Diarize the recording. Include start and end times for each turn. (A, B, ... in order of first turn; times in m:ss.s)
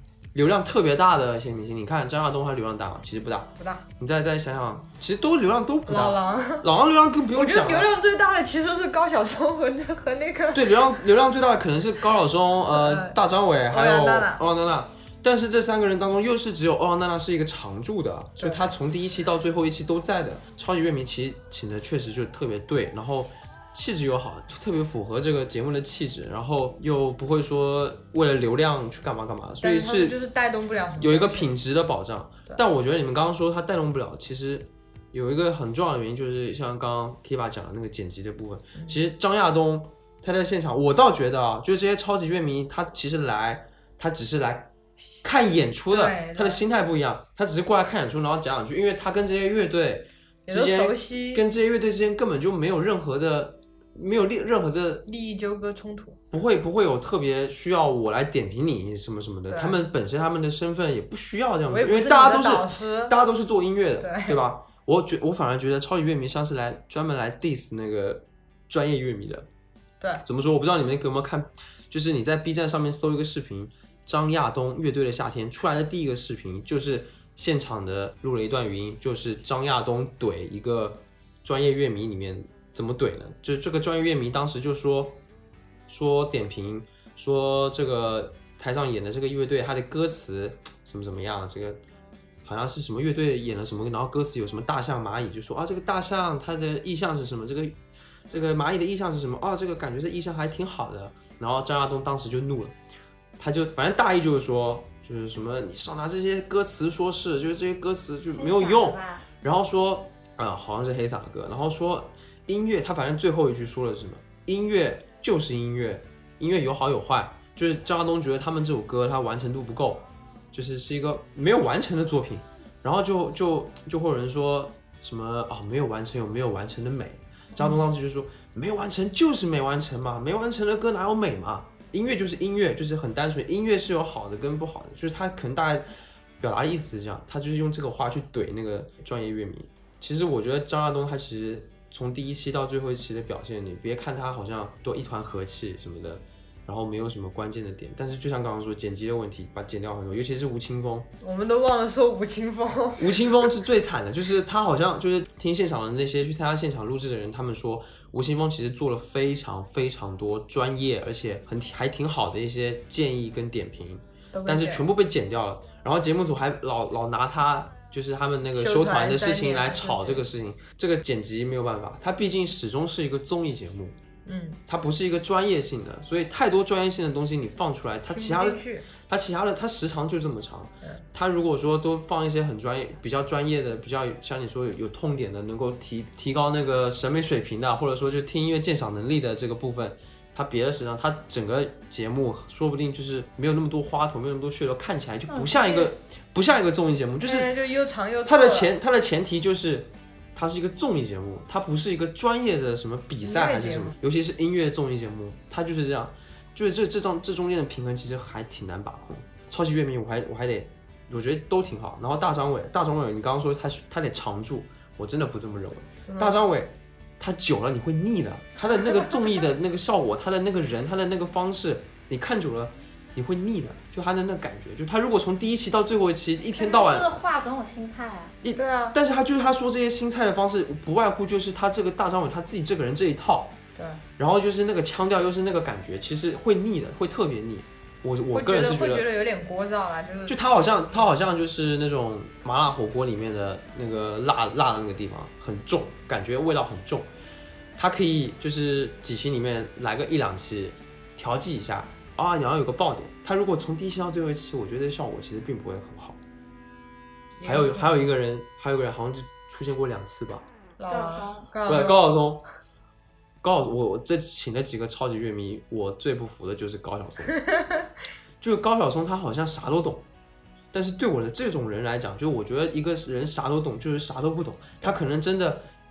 0:00.3-0:07.9 A
0:03.6-0:03.8 B
0:05.9-0:06.7 B
0:07.3-0:11.0 B
0:10.5-0:30.2 A
0:12.7-0:13.2 B
0:13.7-0:14.4 B
0:18.4-0:18.7 B
0:29.6-0:31.6 B
0:31.0-0:44.7 A
0:38.8-0:39.0 B
0:45.2-0:55.0 A
0:45.9-0:46.6 B
0:50.5-0:51.4 B
0:55.1-0:56.2 B
0:56.3-1:09.5 A
0:59.5-0:59.8 B
1:01.7-1:03.2 B
1:04.0-1:04.4 B
1:10.2-1:25.2 A
1:25.9-1:31.8 A
1:32.4-1:42.8 A
1:43.4-2:31.1 A
1:48.3-1:49.3 C
2:07.6-2:07.8 B
2:31.2-2:33.3 B
2:33.0-2:54.0 A
2:44.3-2:44.9 B
2:48.5-2:50.3 B
2:54.3-2:54.6 B
2:54.7-3:17.5 A
2:58.1-2:58.9 B
3:15.3-3:15.9 C
3:17.2-3:18.7 B
3:18.2-3:47.1 A
3:23.2-3:24.0 B
3:36.1-3:36.4 B
3:46.6-3:48.4 C
3:48.4-3:53.6 A
3:48.6-3:49.0 B
3:53.8-3:54.0 B
3:54.2-3:59.0 A
3:58.3-4:01.1 B
4:00.3-4:07.1 A
4:07.8-4:16.2 A
4:17.4-4:18.0 B
4:17.4-4:20.5 A
4:20.8-4:22.1 B
4:20.9-4:21.5 C
4:21.7-4:22.4 A
4:23.4-4:27.4 A
4:27.4-4:27.9 B
4:28.4-4:30.1 A
4:30.7-4:35.7 A